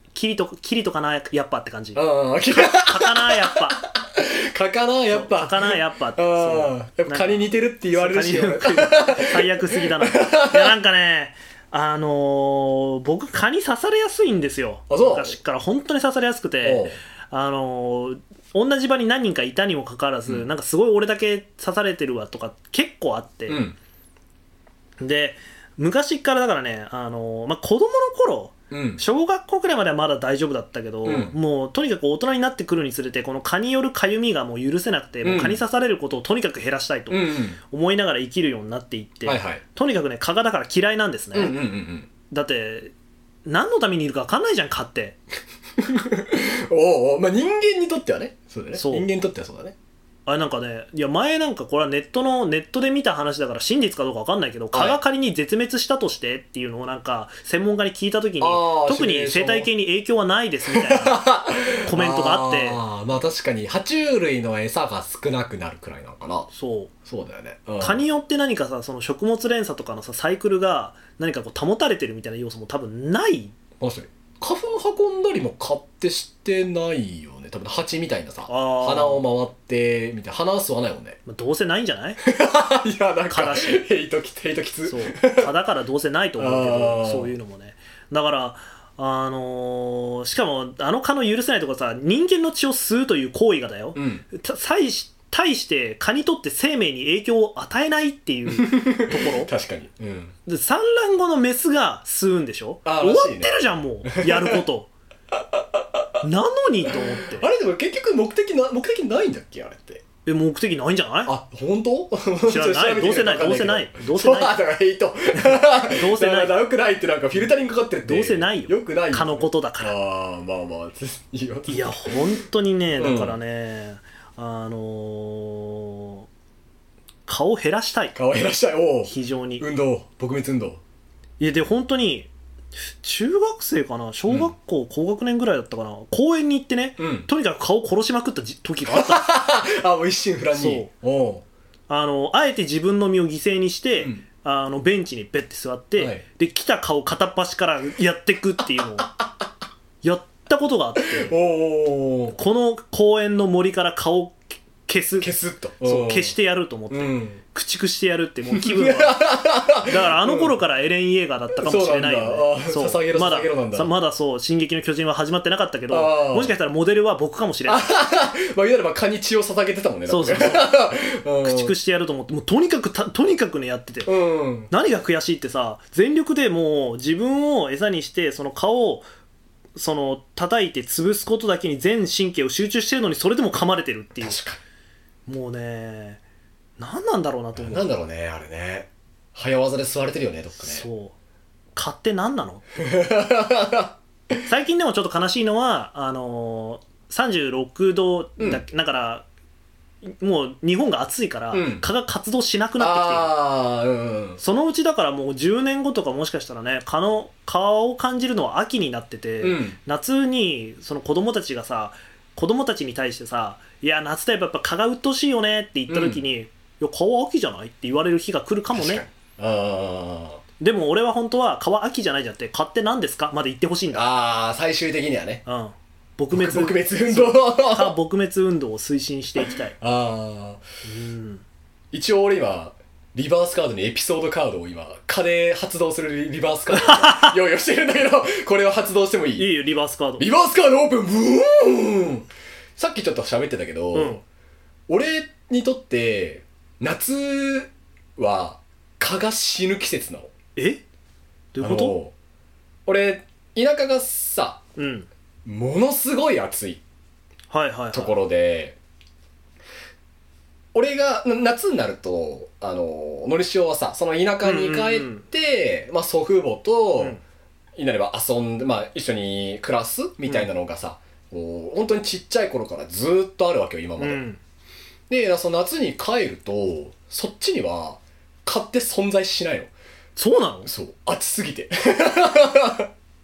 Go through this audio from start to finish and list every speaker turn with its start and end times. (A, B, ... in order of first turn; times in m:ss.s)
0:00.1-0:03.8 A
0:01.9-0:10.8 B
0:05.1-0:23.6 A
0:14.9-0:15.4 B
0:16.6-0:17.0 B
0:23.5-0:23.8 B
0:25.0-0:41.6 A
0:28.7-0:29.0 B
0:31.0-0:31.4 B
0:35.2-0:35.6 B
0:37.1-0:37.6 B
0:39.2-0:39.6 B
0:41.3-0:42.1 B
0:42.3-0:42.9 A
0:43.5-0:45.2 A
0:45.8-0:49.8 B
0:48.8-0:49.1 A
0:50.2-1:01.2 A
0:54.7-0:55.0 B
0:58.4-0:59.7 B
1:00.7-1:06.5 B
1:01.8-1:02.8 A
1:06.5-1:06.9 A
1:07.0-1:08.0 B
1:07.8-1:13.5 A
1:13.8-1:21.2 B
1:18.5-1:19.2 A
1:21.2-1:22.2 A
1:22.2-1:25.5 B
1:23.3-1:23.8 A
1:24.9-1:39.5 A
1:26.4-1:27.4 B
1:33.9-1:34.2 B
1:38.6-1:40.4 B
1:40.5-1:44.9 A
1:42.8-1:44.6 B
1:45.4-1:46.2 B
1:46.2-1:47.5 A
1:46.9-1:50.0 B
1:50.2-1:51.3 A
1:51.2-2:02.4 B
1:52.5-1:54.6 A
1:55.4-1:56.6 A
1:58.1-1:59.9 A
2:01.7-2:06.3 A
2:02.9-2:03.4 B
2:07.3-2:08.2 A
2:08.2-2:10.8 B
2:09.1-2:09.7 A
2:11.4-2:12.3 A
2:13.0-2:19.3 A
2:14.3-2:14.5 B
2:17.0-2:17.3 B
2:18.9-2:21.4 B
2:20.5-2:20.9 A
2:21.9-2:29.1 A
2:24.0-2:24.2 B
2:26.0-2:26.2 B
2:30.0-2:31.3 A
2:31.0-2:32.4 B
2:32.4-2:39.2 A
2:35.2-2:36.3 B
2:36.9-2:37.4 B
2:38.5-2:40.6 B
2:39.8-2:47.9 A
2:41.6-2:43.9 B
2:45.9-2:46.5 B
2:47.7-2:51.8 B
2:50.1-2:50.7 A
2:51.4-2:54.1 A
2:54.0-2:54.7 B
2:54.7-2:59.1 A
2:59.8-3:04.4 A
3:04.2-3:04.6 B
3:05.3-3:06.2 A
3:06.8-3:07.9 A
3:07.6-3:10.8 B
3:10.6-3:11.2 A
3:11.8-3:12.6 A
3:12.8-3:14.4 B
3:14.5-3:19.3 A
3:20.0-3:23.3 A
3:21.5-3:21.8 B
3:22.8-3:24.4 B
3:24.4-3:39.0 A
3:29.4-3:29.8 B
3:35.9-3:36.2 B
3:38.7-3:40.4 B
3:40.6-3:44.0 A
3:43.9-3:45.4 B
3:45.4-3:49.8 A
3:46.3-3:48.0 B
3:49.8-3:50.6 B
3:50.8-3:51.4 A
3:51.9-3:59.5 B
3:56.8-3:57.3 A
3:59.4-4:00.3 A
4:00.2-4:04.2 B
4:03.9-4:04.2 A
4:04.9-4:10.3 B
4:10.6-4:10.8 A
4:11.5-4:12.0 A
4:11.6-4:12.1 B
4:12.8-4:14.6 B
4:14.8-4:15.1 A
4:15.4-4:16.8 B
4:17.5-4:18.2 A
4:17.9-4:18.8 B
4:20.7-4:27.2 B
4:24.4-4:25.2 A
4:27.8-4:34.2 B
4:34.0-4:34.4 A
4:35.1-4:39.7 B
4:40.2-4:40.7 A
4:40.6-4:42.9 B